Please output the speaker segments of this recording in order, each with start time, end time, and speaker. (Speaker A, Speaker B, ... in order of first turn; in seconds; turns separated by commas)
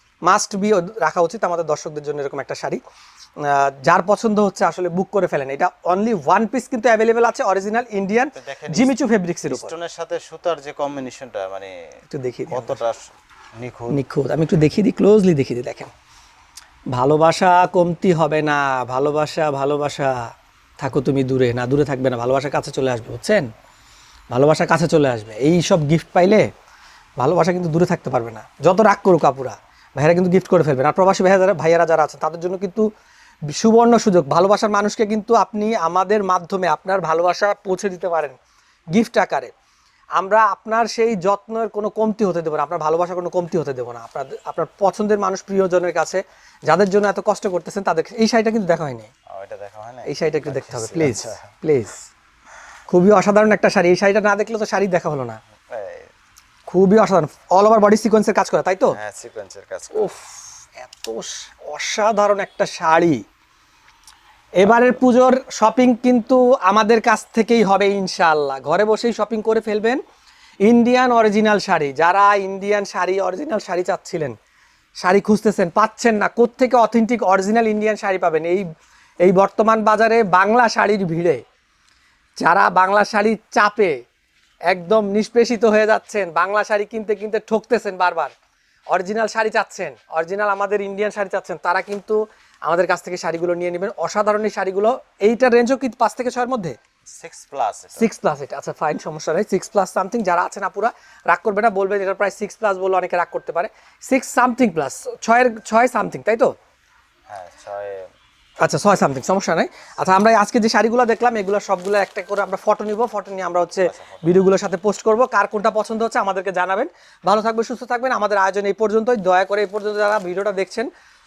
Speaker A: 0.2-2.8, Speaker A: 3.4-9.8, Speaker B: 8.3-8.9, Speaker B: 9.5-11.8, Speaker A: 12.1-12.8, Speaker B: 12.5-14.0, Speaker A: 13.9-15.9, Speaker A: 16.9-23.5, Speaker A: 24.3-26.5, Speaker A: 27.2-32.9, Speaker A: 33.5-38.4, Speaker A: 38.9-39.5, Speaker A: 40.2-49.1, Speaker B: 49.3-51.5, Speaker A: 50.1-52.0, Speaker A: 52.9-55.4, Speaker B: 55.7-56.1, Speaker A: 56.7-59.0, Speaker B: 59.0-60.1, Speaker A: 59.9-63.2, Speaker A: 64.6-70.0, Speaker B: 64.6-65.0, Speaker A: 70.6-74.4, Speaker A: 75.0-78.7, Speaker A: 79.2-81.4, Speaker A: 82.4-84.0, Speaker A: 84.7-88.3, Speaker A: 88.9-96.8, Speaker B: 97.2-98.1, Speaker A: 98.0-106.5, Speaker B: 107.3-108.1, Speaker A: 108.6-120.9, Speaker B: 113.9-114.5